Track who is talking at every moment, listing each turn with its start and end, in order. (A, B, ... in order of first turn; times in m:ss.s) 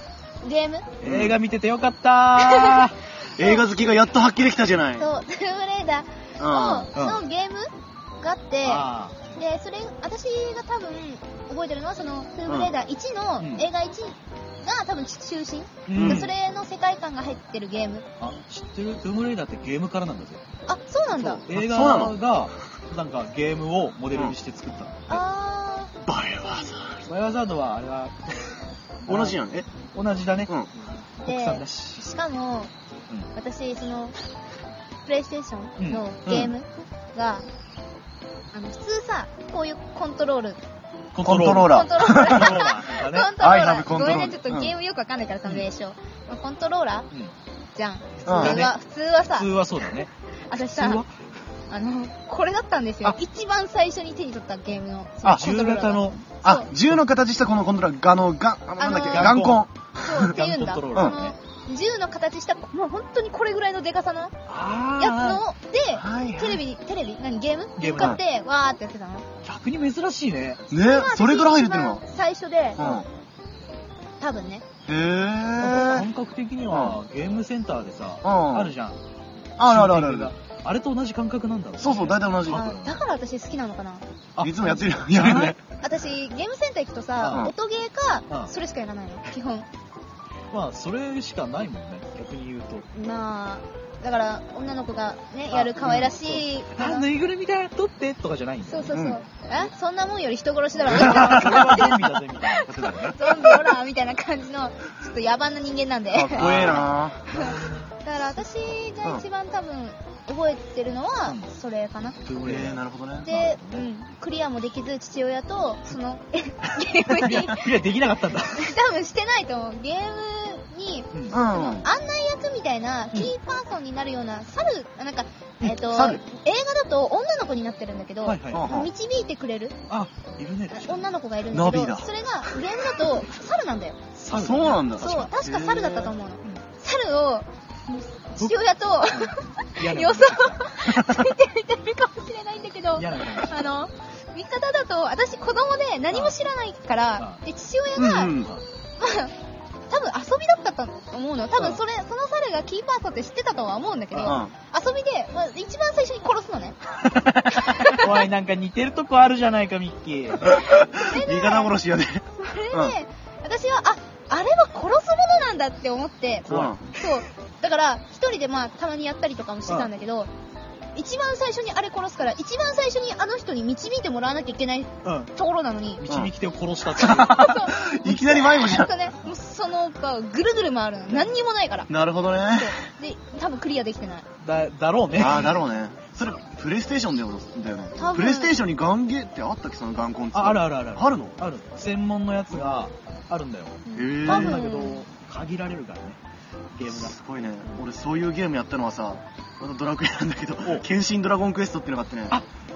0:00.4-0:00.9 A
0:01.0-0:03.0 B
0:01.0-0:01.4 C
0:02.4-0:02.8 A
0:03.4-0:05.1 C
0:03.4-0:03.7 A
0:05.0-0:07.7 A
0:06.4-0:06.9 C
0:06.9-0:07.2 B
0:08.2-0:18.1 A
0:08.6-0:09.2 B
0:12.5-0:12.7 C
0:13.4-0:13.7 B
0:15.9-0:16.3 B
0:16.0-0:16.3 C
0:18.2-0:20.4 B
0:20.7-0:21.4 A
0:21.1-0:25.2 B
0:21.5-0:22.2 C
0:25.1-0:25.9 A
0:26.0-0:27.1 C
0:27.1-0:29.4 B
0:29.1-0:29.7 C
0:29.9-0:30.5 B
0:31.2-0:32.7 A
0:31.2-0:32.0 B
0:33.4-0:34.2 A
0:35.1-0:37.5 A
0:35.8-0:36.0 B
0:36.3-0:36.5 C
0:38.5-0:40.6 A
0:41.1-0:43.3 B
0:41.2-0:42.6 C
0:41.5-0:47.1 A
0:43.4-0:44.7 C
0:47.8-0:49.5 A
0:48.2-0:48.7 B
0:48.3-0:48.7 C
0:49.3-0:51.3 B
0:50.5-0:51.0 A
0:51.7-0:56.7 A
0:55.3-0:56.2 B
0:56.4-1:00.3 C
0:58.8-0:59.4 A
0:59.0-1:01.4 B
1:00.0-1:04.4 A
1:04.5-1:05.4 B
1:05.0-1:09.3 A
1:05.9-1:06.6 C
1:07.8-1:08.2 B
1:09.4-1:10.6 B
1:10.7-1:12.0 C
1:10.8-1:12.8 A
1:12.8-1:13.1 C
1:14.2-1:14.6 A
1:14.9-1:16.1 C
1:15.6-1:19.0 B
1:16.7-1:17.0 C
1:18.2-1:18.7 C
1:19.6-1:20.3 C
1:19.6-1:23.0 B
1:21.8-1:22.7 C
1:22.5-1:24.1 A
1:24.4-1:25.6 B
1:24.4-1:25.6 C
1:25.8-1:29.7 A
1:27.2-1:27.5 B
1:30.5-1:32.9 B
1:32.9-1:37.1 A
1:35.5-1:39.0 B
1:38.7-1:52.2 A
1:38.9-1:39.2 C
1:40.8-1:43.5 B
1:40.9-1:41.7 C
1:46.1-1:47.2 C
1:46.3-1:47.9 B
1:52.2-1:53.8 B
1:52.4-1:53.4 C
1:53.2-1:57.7 A
1:57.1-1:58.7 B
1:58.6-2:09.8 A
2:01.3-2:01.9 C
2:05.6-2:06.2 C
2:08.2-2:08.7 B
2:08.5-2:08.9 C
2:09.9-2:11.1 B
2:10.7-2:14.0 A
2:11.5-2:12.1 C
2:14.2-2:15.3 B
2:14.3-2:16.1 C
2:15.0-2:28.5 A
2:19.1-2:20.7 B
2:20.9-2:21.2 C
2:23.0-2:23.6 B
2:26.1-2:26.4 B
2:27.2-2:27.4 B
2:28.0-2:28.5 C
2:29.0-2:29.3 A
2:29.9-2:36.8 A
2:31.6-2:31.8 B
2:34.1-2:34.4 B
2:34.2-2:34.5 C
2:37.0-2:37.6 C
2:37.6-2:38.0 A
2:37.9-2:40.6 B
2:40.5-2:43.0 C
2:40.9-2:41.7 A
2:42.4-2:50.3 A
2:46.5-2:47.0 B
2:46.5-2:46.8 C
2:51.0-2:56.0 A
2:55.0-2:55.3 B
2:56.0-2:57.5 B
2:57.0-2:58.9 C
2:57.1-3:01.9 A
3:01.9-3:02.8 C
3:02.5-3:04.3 A
3:04.4-3:05.6 B
3:05.2-3:11.4 C
3:08.0-3:08.6 A
3:10.3-3:16.2 B
3:13.8-3:15.0 A
3:13.9-3:14.6 C
3:16.8-3:17.2 B
3:16.9-3:22.4 C